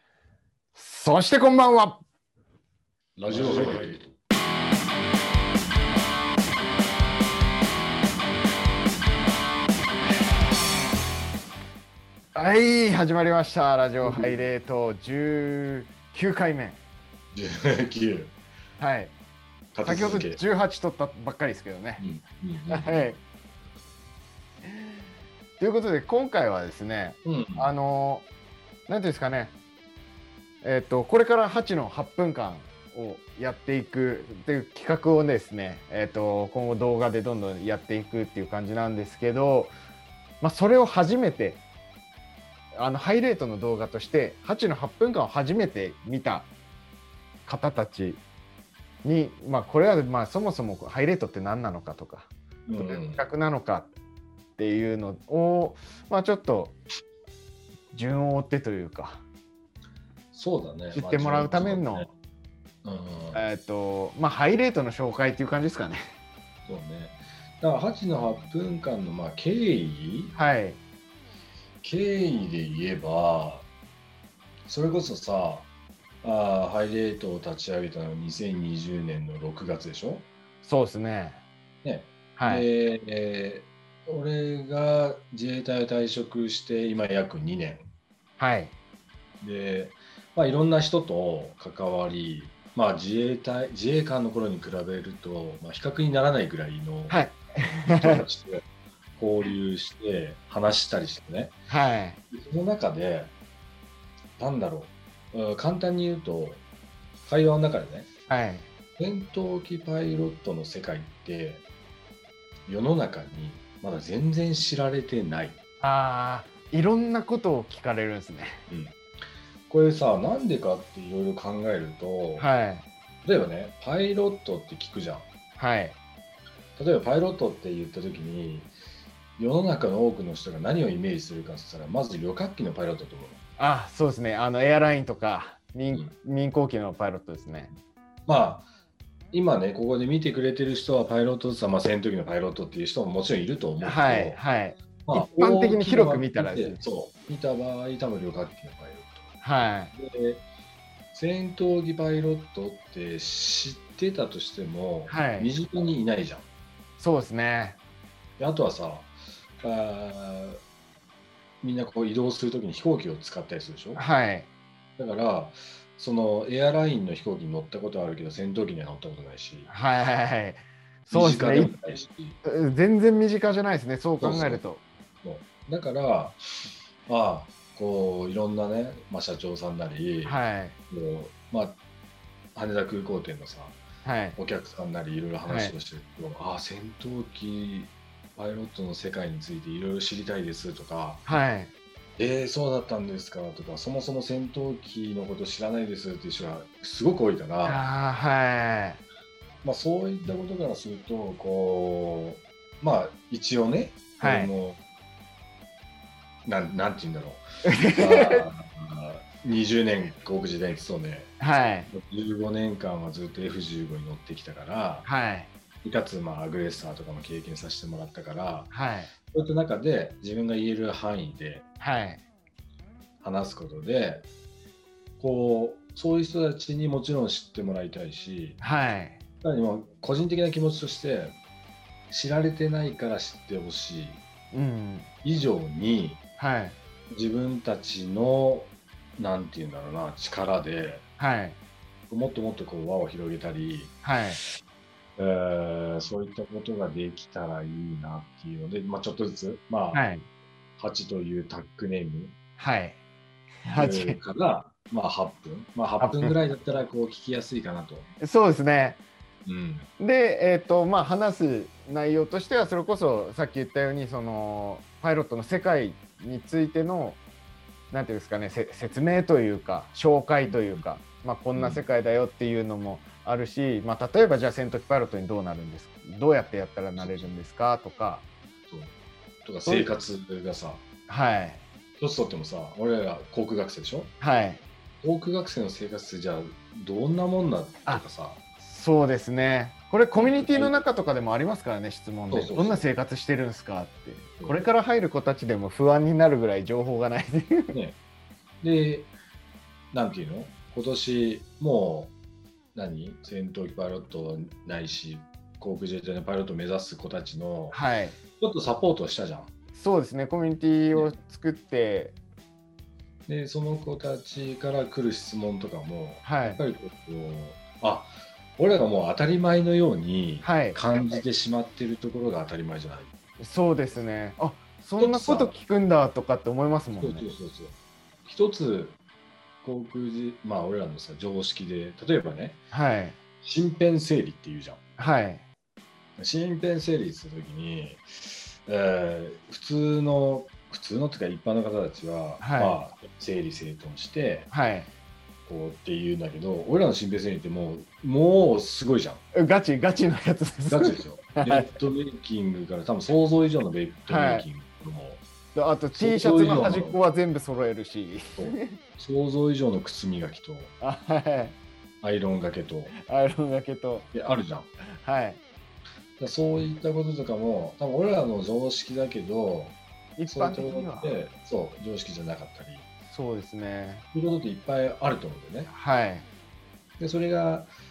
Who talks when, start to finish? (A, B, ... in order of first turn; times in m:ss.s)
0:00.7-0:02.0 A
0:03.2-0:04.0 B
0:03.3-0:03.9 A
0:12.3-0:16.8 A
0:14.0-0:14.4 B
0:17.3-0:18.3 B
0:18.8-0:19.1 A
0:19.7-0:20.4 B
0:19.8-0:22.0 A
0:22.0-0:23.1 B
0:22.7-0:23.2 A
0:24.6-0:25.0 A
0:25.6-0:28.3 A
0:27.2-0:27.7 B
0:28.9-0:29.5 A
0:30.6-0:39.7 A
0:40.4-0:41.6 A
0:42.8-0:46.5 A
0:47.4-0:48.2 A
0:49.0-0:52.3 A
0:52.7-0:53.3 B
0:52.8-0:53.9 A
0:54.6-0:56.8 A
0:57.9-0:59.2 A
1:00.3-1:02.1 B
1:00.9-1:02.1 A
1:02.8-1:03.4 B
1:03.3-1:06.0 A
1:06.7-1:10.3 B
1:10.3-1:10.8 A
1:11.8-1:13.7 B
1:14.7-1:15.7 B
1:16.2-1:20.3 B
1:20.6-1:21.4 A
1:21.8-1:27.9 B
1:22.4-1:22.7 A
1:28.4-1:28.7 A
1:29.4-1:37.2 B
1:37.1-1:38.2 A
1:37.9-1:38.6 B
1:39.2-1:41.6 B
1:41.7-1:42.2 A
1:42.3-1:43.3 B
1:44.4-1:46.6 B
1:47.2-1:48.1 B
1:48.3-1:48.7 A
1:49.0-1:51.6 B
1:52.7-1:55.6 B
1:55.8-1:58.6 A
1:58.7-1:59.0 B
1:59.7-2:02.5 B
2:02.4-2:02.8 A
2:03.2-2:05.3 B
2:05.6-2:06.0 A
2:06.8-2:08.7 B
2:09.4-2:13.4 B
2:13.6-2:17.7 A
2:18.3-2:18.7 B
2:19.3-2:24.4 B
2:23.8-2:26.8 A
2:25.0-2:29.3 B
2:29.4-2:29.9 A
2:29.9-2:30.4 B
2:31.1-2:36.4 B
2:35.1-2:35.5 A
2:37.0-2:37.8 A
2:38.4-2:40.6 B
2:41.6-2:44.0 B
2:44.0-2:44.5 A
2:45.0-2:49.7 B
2:49.7-2:51.7 A
2:51.1-2:52.4 B
2:52.4-2:54.8 A
2:54.2-2:54.6 B
2:55.2-2:56.4 B
2:57.0-3:00.4 B
3:00.2-3:00.8 A
3:00.9-3:01.8 B
3:02.5-3:03.8 B
3:04.0-3:04.4 A
3:04.4-3:11.2 B
3:05.4-3:05.7 A
3:11.3-3:11.7 A
3:12.2-3:17.8 B
3:17.6-3:19.0 A
3:19.6-3:24.8 B
3:24.2-3:24.5 A
3:26.4-3:31.3 B
3:27.6-3:28.4 A
3:31.4-3:31.9 A
3:31.9-3:35.1 B
3:35.0-3:35.5 A
3:35.8-3:38.7 B
3:38.7-3:39.1 A
3:39.3-3:41.7 B
3:41.8-3:42.2 A
3:43.2-3:44.3 B
3:45.2-3:48.6 B
3:48.6-3:49.2 A
3:49.4-3:51.4 B
3:52.1-3:54.2 B
3:54.5-3:55.1 A
3:55.2-3:56.2 B
3:56.4-3:56.8 A
3:57.1-4:01.0 B
4:01.2-4:01.6 A
4:02.1-4:04.5 B
4:04.0-4:04.4 A
4:05.2-4:10.0 B
4:09.9-4:10.2 A
4:10.8-4:12.3 B
4:12.6-4:13.0 A
4:13.6-4:14.2 A
4:13.6-4:18.1 B
4:16.0-4:16.4 A
4:18.2-4:19.0 A
4:19.4-4:19.9 B
4:20.0-4:27.2 A
4:27.9-4:38.2 A
4:30.4-4:30.8 B
4:31.5-4:31.8 B
4:37.0-4:37.3 B
4:39.4-4:40.8 B
4:39.6-4:39.9 A
4:41.1-4:41.6 A
4:42.0-4:44.1 B
4:44.2-4:44.6 A
4:45.0-4:48.4 B
4:48.6-4:57.7 A
4:50.1-4:50.8 B
4:52.3-4:52.8 B
4:54.4-4:54.6 B
4:57.7-4:58.0 B
4:58.6-4:59.1 B
4:59.9-5:02.2 B
5:02.7-5:07.8 B
5:07.7-5:08.2 A
5:08.4-5:09.5 B
5:09.8-5:12.2 A
5:13.3-5:23.1 B
5:16.2-5:16.6 A
5:20.4-5:21.2 A
5:23.4-5:27.3 A
5:25.0-5:25.5 B
5:26.9-5:27.7 B
5:28.2-5:29.0 B
5:29.6-5:32.6 B
5:32.7-5:33.2 A
5:33.4-5:34.8 B
5:35.0-5:35.4 A
5:36.2-5:44.5 B
5:42.4-5:42.8 A
5:44.5-5:44.9 A
5:45.4-5:49.2 B
5:49.3-5:51.7 A
5:50.7-5:55.2 B
5:54.1-5:54.5 A
5:55.5-5:58.8 A
5:55.9-5:57.0 B
5:58.4-6:00.7 B
6:00.8-6:01.6 A
6:02.0-6:02.9 B
6:03.0-6:04.1 A
6:04.1-6:04.7 B
6:05.0-6:05.4 A
6:06.2-6:12.8 B
6:10.2-6:11.1 A
6:13.1-6:14.0 A
6:14.1-6:15.7 B
6:15.7-6:16.3 A
6:17.0-6:17.7 B